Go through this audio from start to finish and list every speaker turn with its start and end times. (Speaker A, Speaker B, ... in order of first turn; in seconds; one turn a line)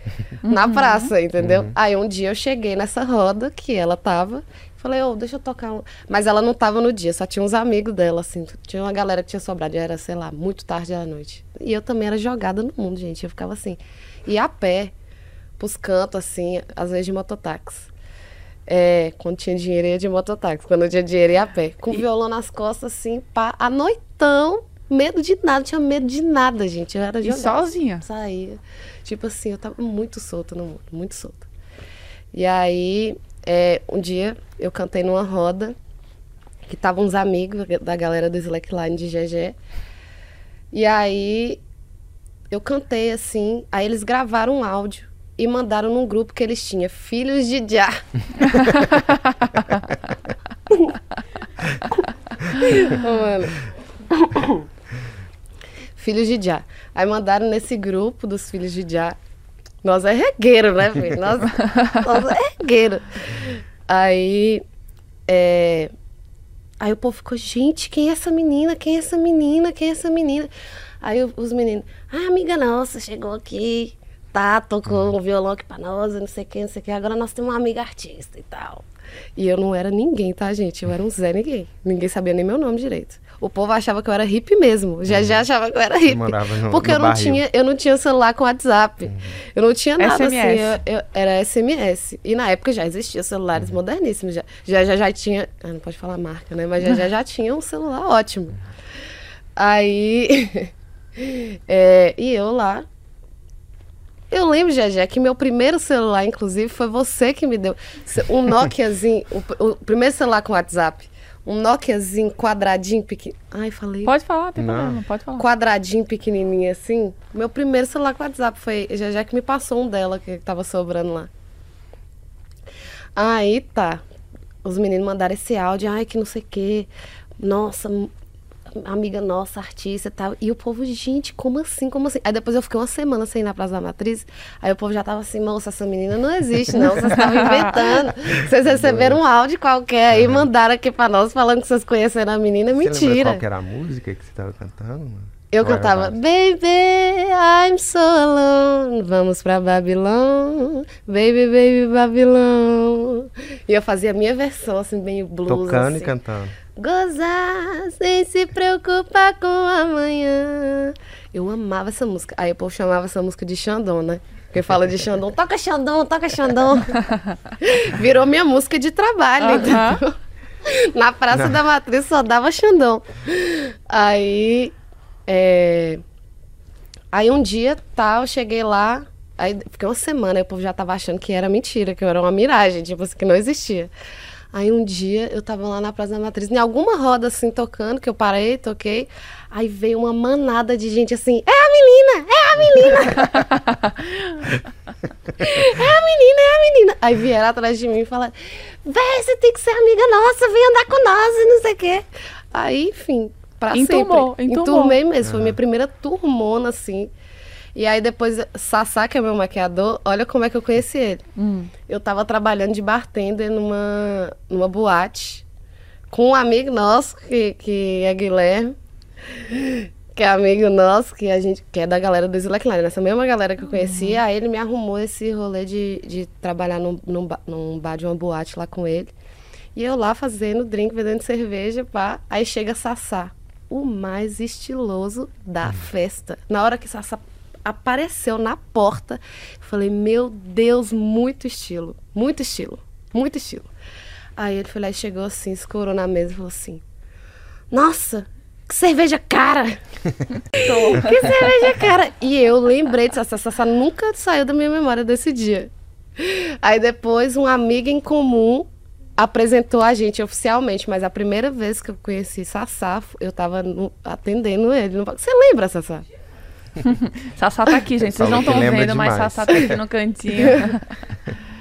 Speaker A: 0.4-1.1
Speaker B: 0.5-14.9
Speaker C: 1.4-1.7
Speaker B: 15.6-17.9
Speaker B: 18.7-31.4
Speaker A: 27.2-28.1
Speaker B: 32.3-35.8
Speaker B: 36.7-39.5
Speaker B: 40.7-41.6
Speaker B: 42.5-48.8
Speaker B: 50.7-51.0
Speaker B: 51.9-54.6
Speaker B: 56.0-59.1
Speaker B: 59.8-64.6
Speaker B: 65.3-65.9
Speaker B: 66.8-70.5
Speaker B: 71.0-78.8
Speaker B: 79.4-98.6
Speaker C: 85.1-85.4
Speaker C: 86.0-87.4
Speaker C: 89.0-89.4
Speaker A: 90.0-90.8
Speaker C: 93.5-93.8
Speaker B: 99.6-102.8
Speaker B: 104.3-114.1
Speaker A: 114.0-115.5
Speaker C: 114.6-115.0
Speaker B: 115.4-121.3
Speaker B: 123.2-124.0
Speaker B: 124.6-126.9
Speaker B: 127.4-128.1
Speaker B: 128.8-143.4
Speaker A: 137.0-137.8
Speaker C: 138.4-139.2
Speaker C: 140.1-140.4
Speaker C: 142.8-146.2
Speaker B: 145.5-156.1
Speaker C: 155.5-156.6
Speaker B: 156.8-167.0
Speaker B: 167.6-174.7
Speaker A: 169.4-170.0
Speaker C: 171.3-171.6
Speaker B: 175.3-176.0
Speaker B: 177.1-183.9
Speaker B: 184.5-193.5
Speaker A: 193.3-194.3
Speaker B: 195.4-207.1
Speaker A: 203.7-205.0
Speaker C: 205.2-205.6
Speaker B: 207.7-211.2
Speaker A: 211.4-211.7
Speaker B: 211.9-215.4
Speaker B: 216.1-218.7
Speaker B: 219.3-229.1
Speaker A: 223.7-224.2
Speaker B: 229.7-243.7
Speaker B: 244.4-246.8
Speaker B: 247.7-249.8
Speaker A: 250.5-251.6
Speaker B: 250.5-266.0
Speaker A: 266.9-270.8
Speaker C: 268.1-269.8
Speaker B: 270.4-270.7